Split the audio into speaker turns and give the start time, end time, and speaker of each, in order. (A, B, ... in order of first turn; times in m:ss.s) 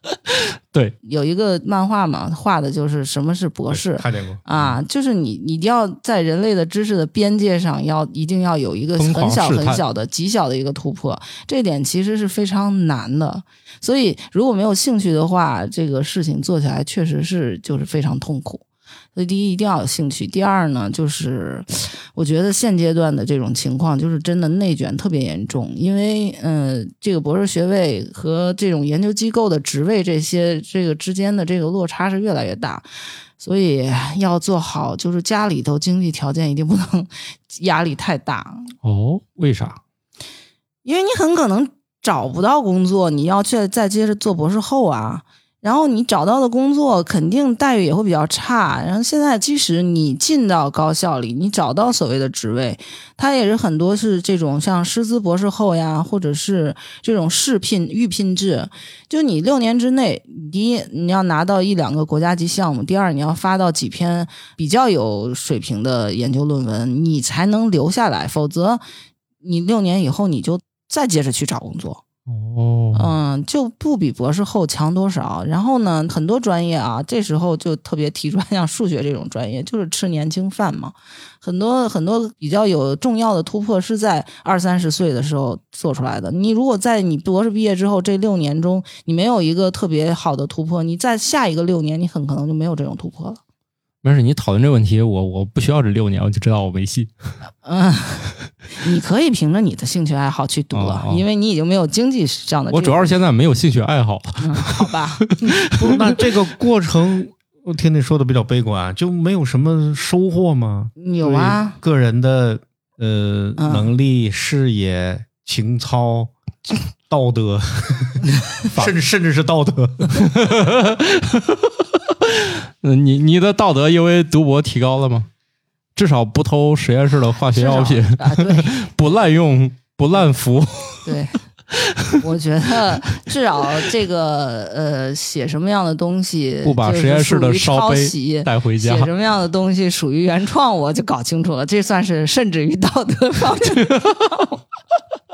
0:00.3-0:00.9 A
0:01.0-0:18.6 B
0:03.7-0:04.7 C
0:09.0-0:09.8 A
0:19.1-0:32.9 B
0:33.4-0:38.7 B
0:38.8-0:39.8 A
0:40.8-1:08.8 B
1:09.4-1:12.0 B
1:12.3-1:13.1 A
1:12.9-1:33.4 B
1:34.0-1:37.1 A
1:37.6-1:43.1 B
1:40.7-1:41.2 A
1:42.7-1:45.9 A
1:44.4-1:45.4 B
1:45.7-2:00.3 C
1:51.0-1:51.8 B
1:53.6-1:53.9 B
2:00.2-2:01.7 A
2:02.3-2:05.3 A
2:06.0-2:11.1 A
2:07.5-2:08.7 B
2:11.0-2:11.4 B
2:11.7-2:12.2 A
2:12.2-2:24.6 B
2:16.6-2:19.1 A